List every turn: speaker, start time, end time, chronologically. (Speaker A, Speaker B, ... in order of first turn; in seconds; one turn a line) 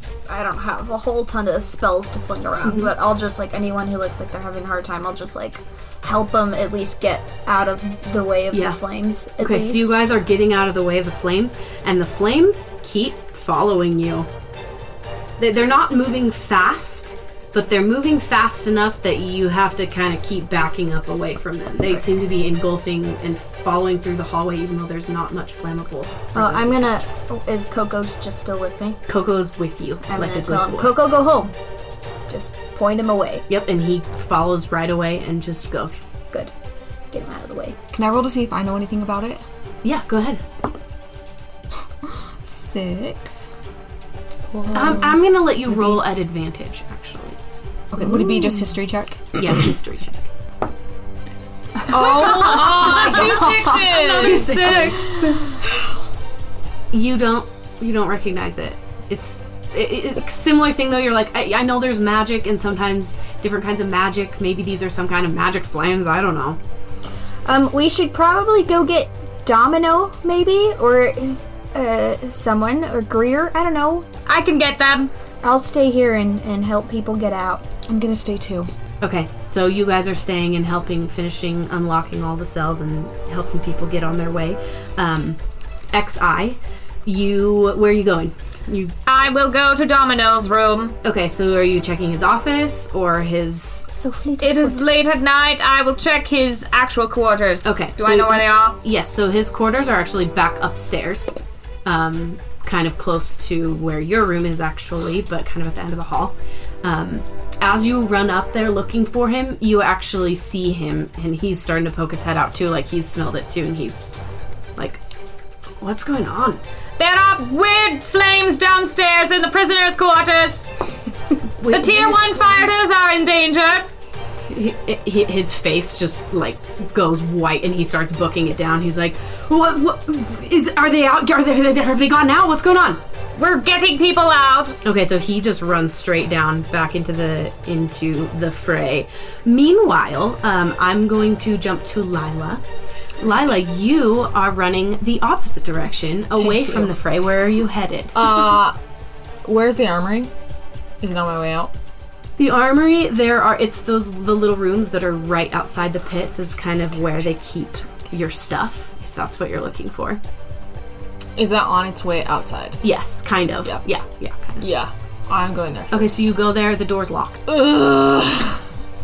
Speaker A: 0.3-10.0
Speaker B: 2.6-2.9
Speaker B: 8.5-8.8
Speaker B: 9.4-14.3
Speaker B: 15.4-27.0
Speaker A: 26.4-29.0
Speaker B: 29.1-31.0
Speaker A: 30.1-31.5
Speaker A: 32.3-33.5
Speaker B: 33.5-36.0
Speaker A: 37.1-37.8
Speaker C: 37.9-39.4
Speaker B: 39.8-40.4
Speaker C: 42.0-43.5
Speaker D: 44.5-45.1
Speaker C: 44.7-45.1
Speaker B: 44.7-47.4
Speaker C: 45.7-46.0
Speaker C: 47.9-49.7
Speaker B: 49.4-50.3
Speaker C: 51.9-53.6
Speaker D: 51.9-55.5
Speaker B: 52.1-55.3
Speaker B: 56.9-66.6
Speaker A: 67.5-74.1
Speaker E: 74.3-75.1
Speaker A: 75.4-77.7
Speaker C: 77.9-78.7
Speaker B: 79.0-85.4
Speaker B: 85.9-88.9
Speaker E: 89.1-91.0
Speaker B: 91.0-93.9
Speaker A: 93.9-94.8
Speaker E: 94.4-98.8
Speaker B: 97.6-114.1
Speaker B: 114.8-115.0
Speaker B: 115.8-116.6
Speaker E: 117.0-120.7
Speaker B: 121.6-122.7
Speaker E: 121.7-123.9
Speaker B: 124.5-133.0
Speaker E: 133.3-134.8
Speaker B: 134.8-142.6
Speaker B: 143.2-148.4
Speaker D: 146.4-146.9
Speaker D: 148.1-148.8
Speaker D: 149.4-150.3
Speaker D: 151.0-151.7
Speaker B: 152.4-160.2
Speaker D: 161.4-162.8
Speaker B: 162.8-164.6
Speaker D: 164.6-166.3
Speaker B: 165.9-167.4
Speaker D: 167.5-168.7